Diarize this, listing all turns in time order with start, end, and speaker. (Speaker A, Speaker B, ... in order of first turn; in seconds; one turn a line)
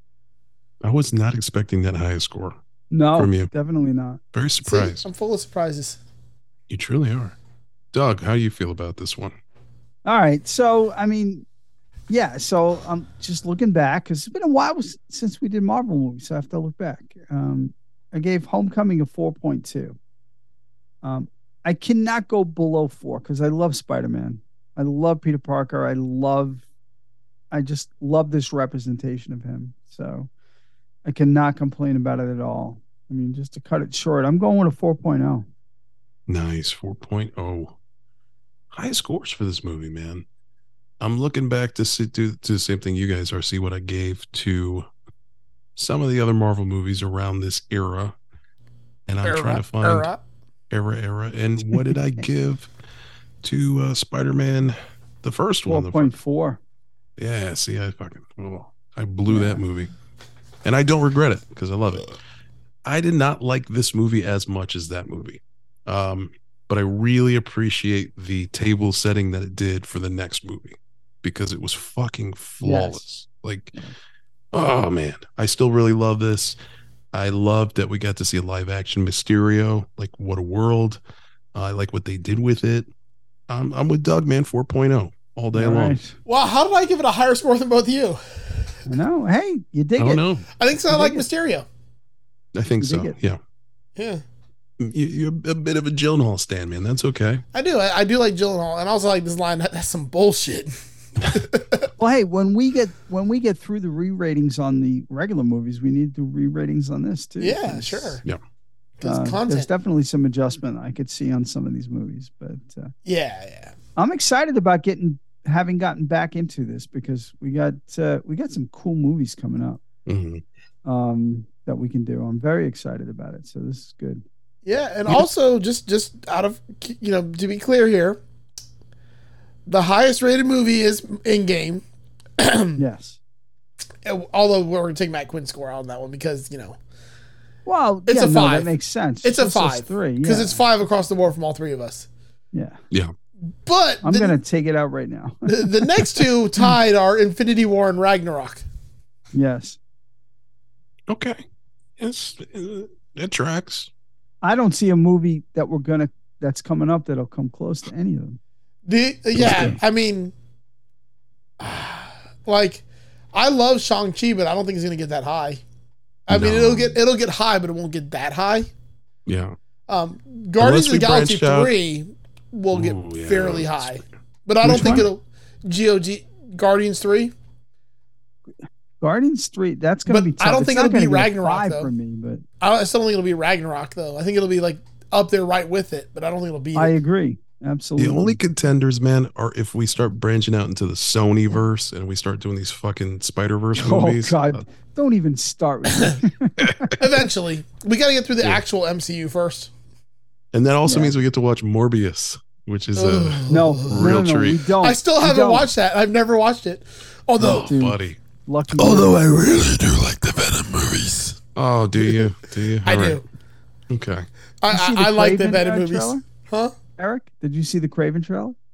Speaker A: 0.8-2.6
Speaker B: 2.9-4.2
Speaker A: 3.2-3.5
Speaker A: 4.3-5.0
Speaker C: 4.6-6.0
Speaker A: 6.7-7.3
Speaker A: 7.9-9.4
Speaker B: 10.1-11.5
Speaker B: 12.1-20.0
Speaker B: 21.0-26.6
Speaker B: 27.5-30.3
Speaker B: 31.1-35.5
Speaker A: 36.3-37.8
Speaker A: 38.7-40.2
Speaker A: 41.0-44.9
Speaker A: 45.8-48.2
Speaker A: 49.1-50.1
Speaker C: 49.2-50.2
Speaker A: 50.7-52.7
Speaker A: 53.4-56.1
Speaker B: 55.7-56.6
Speaker A: 57.2-59.9
Speaker B: 59.3-59.6
Speaker A: 60.6-62.2
Speaker A: 62.9-73.8
Speaker B: 72.6-73.0
Speaker A: 74.5-76.6
Speaker A: 77.1-81.0
Speaker A: 81.5-82.9
Speaker A: 83.5-86.0
Speaker B: 85.5-86.2
Speaker C: 86.3-88.2
Speaker B: 88.9-90.2
Speaker A: 90.0-90.5
Speaker C: 90.6-91.7
Speaker B: 90.9-91.3
Speaker A: 92.5-93.4
Speaker B: 92.8-93.2
Speaker C: 94.0-94.2
Speaker A: 94.8-97.4
Speaker C: 97.5-101.9
Speaker B: 102.0-108.2
Speaker C: 107.4-108.2
Speaker C: 109.0-109.7
Speaker B: 109.0-112.9
Speaker C: 113.1-113.8
Speaker B: 114.0-119.8
Speaker A: 120.1-120.4
Speaker B: 120.8-124.2
Speaker C: 124.7-128.2
Speaker C: 129.7-131.8
Speaker C: 132.4-132.8
Speaker B: 132.8-133.2
Speaker C: 134.1-136.8
Speaker B: 137.7-140.6
Speaker C: 138.1-138.7
Speaker C: 139.2-142.1
Speaker B: 142.5-142.8
Speaker C: 143.7-144.3
Speaker B: 144.0-146.0
Speaker C: 145.5-148.6
Speaker B: 149.3-149.8
Speaker A: 151.1-151.4
Speaker A: 152.0-153.9
Speaker B: 154.4-158.4
Speaker C: 158.9-160.3
Speaker B: 159.4-159.8
Speaker C: 161.6-165.6
Speaker C: 166.3-168.7
Speaker A: 166.3-167.0
Speaker A: 169.3-169.6
Speaker C: 169.9-177.3
Speaker A: 170.6-171.7
Speaker A: 172.7-174.0
Speaker B: 174.6-175.1
Speaker A: 174.7-175.0
Speaker B: 179.0-182.4
Speaker C: 180.1-181.9
Speaker C: 182.6-186.9
Speaker B: 186.8-188.4
Speaker A: 188.0-194.6
Speaker B: 193.8-196.9
Speaker A: 196.6-196.9
Speaker C: 197.0-199.7
Speaker A: 200.5-204.7
Speaker B: 200.9-201.1
Speaker C: 202.9-204.2
Speaker B: 203.5-205.7
Speaker C: 204.8-207.7
Speaker A: 207.4-208.2
Speaker B: 207.4-209.2
Speaker C: 208.8-211.4
Speaker A: 211.6-213.2
Speaker C: 212.8-213.2
Speaker A: 213.9-214.3
Speaker C: 214.6-216.7
Speaker B: 214.7-216.2
Speaker B: 217.0-218.6